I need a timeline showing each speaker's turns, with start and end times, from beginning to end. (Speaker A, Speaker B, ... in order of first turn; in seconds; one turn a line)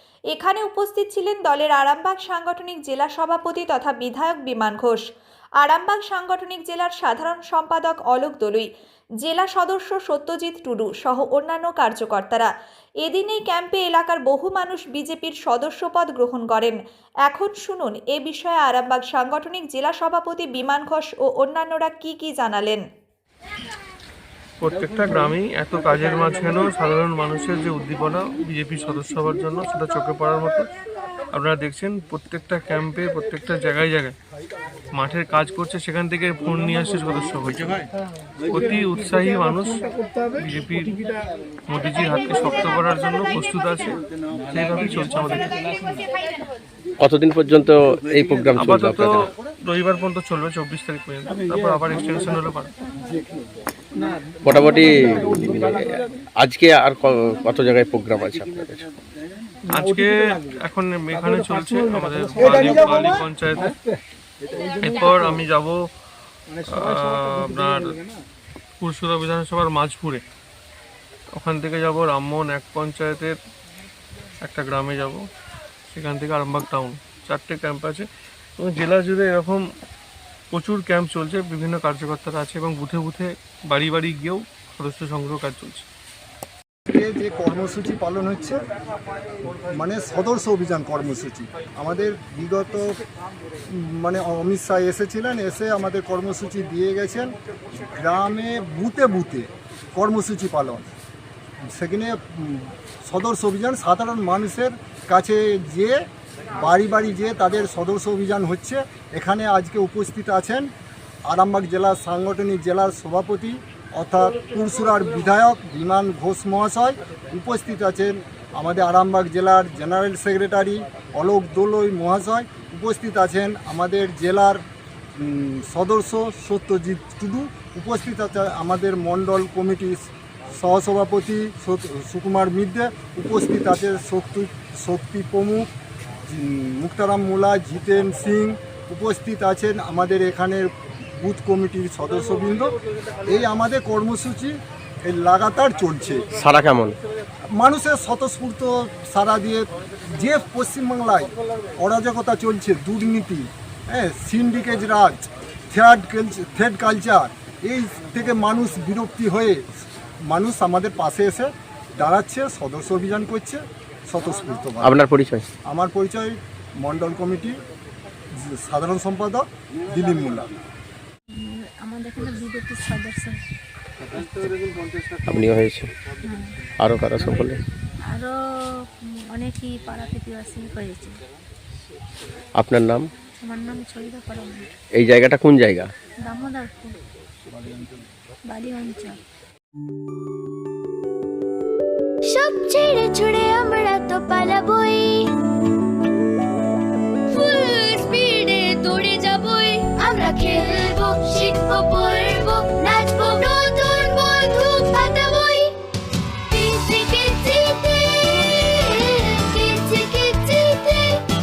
Speaker A: 0.3-5.0
Speaker A: 5.6-8.7
Speaker A: 9.2-12.5
Speaker A: 13.0-22.8
Speaker B: 24.6-30.7
Speaker B: 31.3-34.1
Speaker B: 34.9-37.9
Speaker B: 38.5-39.8
Speaker B: 40.4-41.0
Speaker B: 41.7-45.5
Speaker C: 47.0-49.3
Speaker B: 48.5-52.7
Speaker C: 54.4-58.8
Speaker B: 59.7-63.7
Speaker B: 64.6-65.8
Speaker B: 66.7-68.0
Speaker B: 68.8-70.2
Speaker B: 71.3-73.3
Speaker B: 74.4-75.2
Speaker B: 75.9-78.1
Speaker B: 78.6-79.6
Speaker B: 80.5-85.8
Speaker D: 86.9-88.6
Speaker D: 89.5-93.0
Speaker D: 93.7-97.3
Speaker D: 97.9-100.9
Speaker D: 101.7-110.7
Speaker D: 111.3-124.6
Speaker D: 125.2-135.7
Speaker D: 136.3-142.7
Speaker D: 143.2-146.2
Speaker C: 146.3-146.9
Speaker D: 147.5-159.6
Speaker D: 160.3-164.9
Speaker C: 164.8-165.4
Speaker D: 165.7-167.6
Speaker D: 168.3-170.5
Speaker E: 171.4-173.4
Speaker E: 174.1-174.5
Speaker C: 175.2-175.9
Speaker C: 176.8-177.6
Speaker E: 178.1-178.3
Speaker E: 179.3-181.2
Speaker C: 182.6-183.1
Speaker E: 183.4-184.7
Speaker C: 184.9-185.9
Speaker E: 186.2-187.0
Speaker E: 188.5-189.2
Speaker F: 193.1-195.1
Speaker F: 197.4-205.6
Speaker F: 206.5-208.3
Speaker F: 209.5-211.1